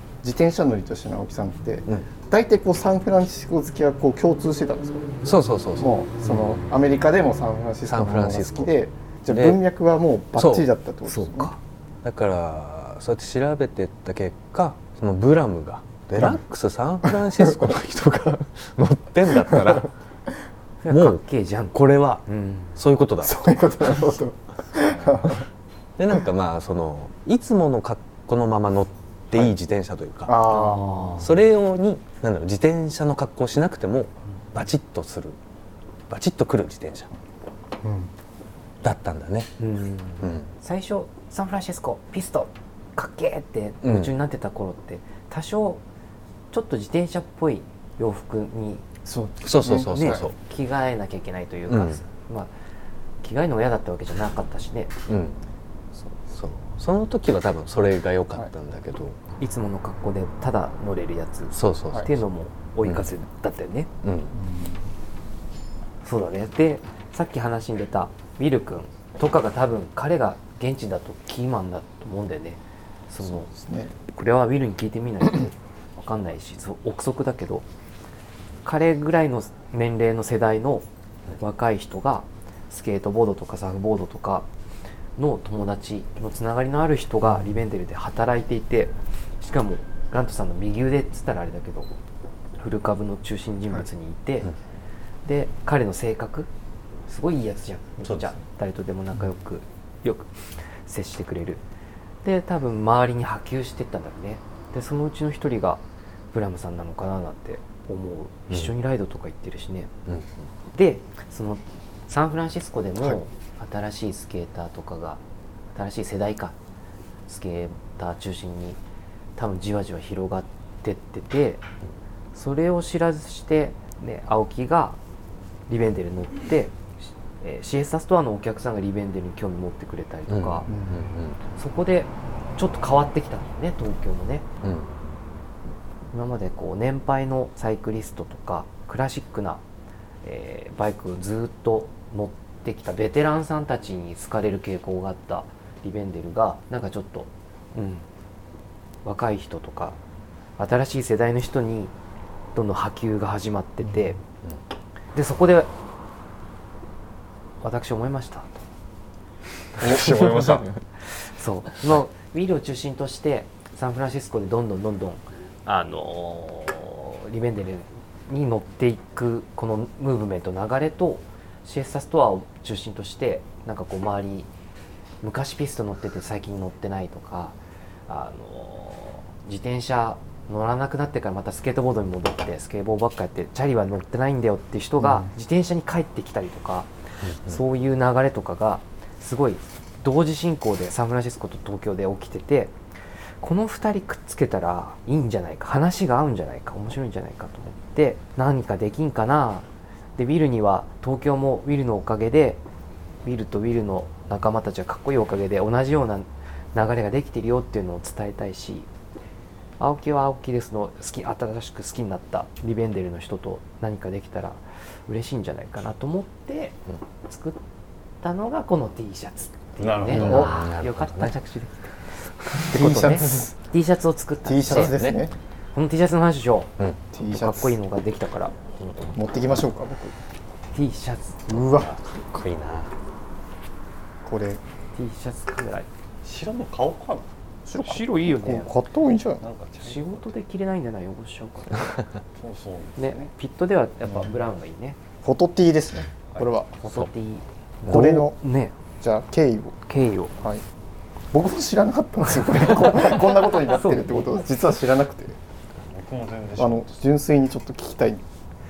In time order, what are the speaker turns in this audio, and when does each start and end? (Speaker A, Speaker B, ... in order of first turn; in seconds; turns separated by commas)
Speaker A: 0.2-11.5, Speaker B: 5.2-6.6, Speaker B: 7.9-8.7, Speaker B: 9.3-9.6, Speaker B: 10.3-10.7, Speaker C: 11.1-11.6, Speaker B: 12.0-19.9, Speaker C: 20.8-22.7, Speaker B: 20.9-21.2, Speaker B: 21.7-23.5, Speaker A: 23.2-25.4, Speaker B: 26.0-30.4, Speaker A: 30.2-31.2, Speaker C: 30.4-31.3, Speaker B: 31.2-35.4, Speaker B: 36.1-37.1, Speaker A: 37.8-38.1, Speaker B: 38.8-39.5, Speaker C: 39.6-45.8, Speaker B: 40.2-40.5, Speaker B: 43.8-44.1, Speaker C: 46.5-48.8, Speaker A: 49.0-50.2, Speaker B: 49.4-50.4, Speaker C: 49.7-52.5, Speaker B: 51.7-52.0, Speaker C: 53.2-54.9, Speaker B: 55.1-55.4, Speaker B: 56.3-59.2, Speaker C: 59.4-63.9, Speaker B: 61.5-62.1, Speaker B: 64.0-64.3, Speaker A: 64.3-64.8, Speaker C: 66.0-73.5, Speaker A: 73.3-73.9, Speaker C: 74.1-77.6, Speaker C: 78.6-80.8, Speaker C: 81.4-84.5, Speaker C: 85.2-91.9, Speaker C: 92.6-94.5, Speaker C: 95.2-96.5, Speaker C: 97.1-101.6, Speaker D: 98.0-98.3, Speaker C: 102.2-105.8, Speaker C: 106.3-109.9, Speaker C: 110.7-115.2, Speaker C: 115.7-116.5, Speaker C: 117.3-118.8, Speaker C: 119.4-121.6, Speaker C: 122.3-125.0, Speaker C: 125.7-130.7, Speaker B: 130.3-131.4, Speaker A: 130.7-131.0, Speaker C: 131.6-134.5, Speaker B: 134.6-135.1, Speaker C: 136.1-139.6, Speaker C: 140.2-148.1, Speaker C: 149.0-150.0, Speaker C: 150.6-151.9, Speaker C: 152.5-154.2, Speaker C: 155.1-155.7, Speaker C: 157.6-158.6, Speaker C: 159.8-174.5, Speaker B: 159.8-160.8, Speaker C: 175.2-177.6, Speaker C: 178.1-192.7, Speaker A: 185.0-185.3, Speaker B: 187.2-187.6, Speaker C: 193.4-202.6, Speaker C: 203.2-208.9, Speaker C: 209.8-217.6, Speaker C: 218.2-225.0, Speaker D: 219.8-220.5, Speaker B: 220.1-221.3, Speaker A: 222.6-223.6, Speaker A: 224.4-225.3, Speaker B: 224.7-225.2, Speaker C: 225.7-226.7, Speaker A: 227.1-227.8, Speaker C: 227.3-228.6, Speaker B: 228.8-229.1, Speaker A: 229.1-230.1, Speaker C: 230.7-231.7, Speaker A: 231.5-232.0, Speaker B: 231.6-232.9, Speaker A: 234.2-234.6, Speaker C: 234.9-235.9, Speaker D: 236.2-237.3, Speaker A: 237.7-239.4, Speaker C: 237.7-238.8, Speaker D: 239.4-240.2, Speaker C: 239.8-242.0, Speaker D: 242.3-243.3, Speaker C: 243.0-245.0, Speaker A: 245.2-246.7, Speaker C: 246.8-248.7, Speaker A: 247.9-248.4, Speaker A: 249.0-249.8, Speaker C: 249.9-250.3, Speaker A: 251.3-255.4, Speaker C: 253.7-254.3, Speaker D: 255.8-256.9, Speaker A: 256.6-258.2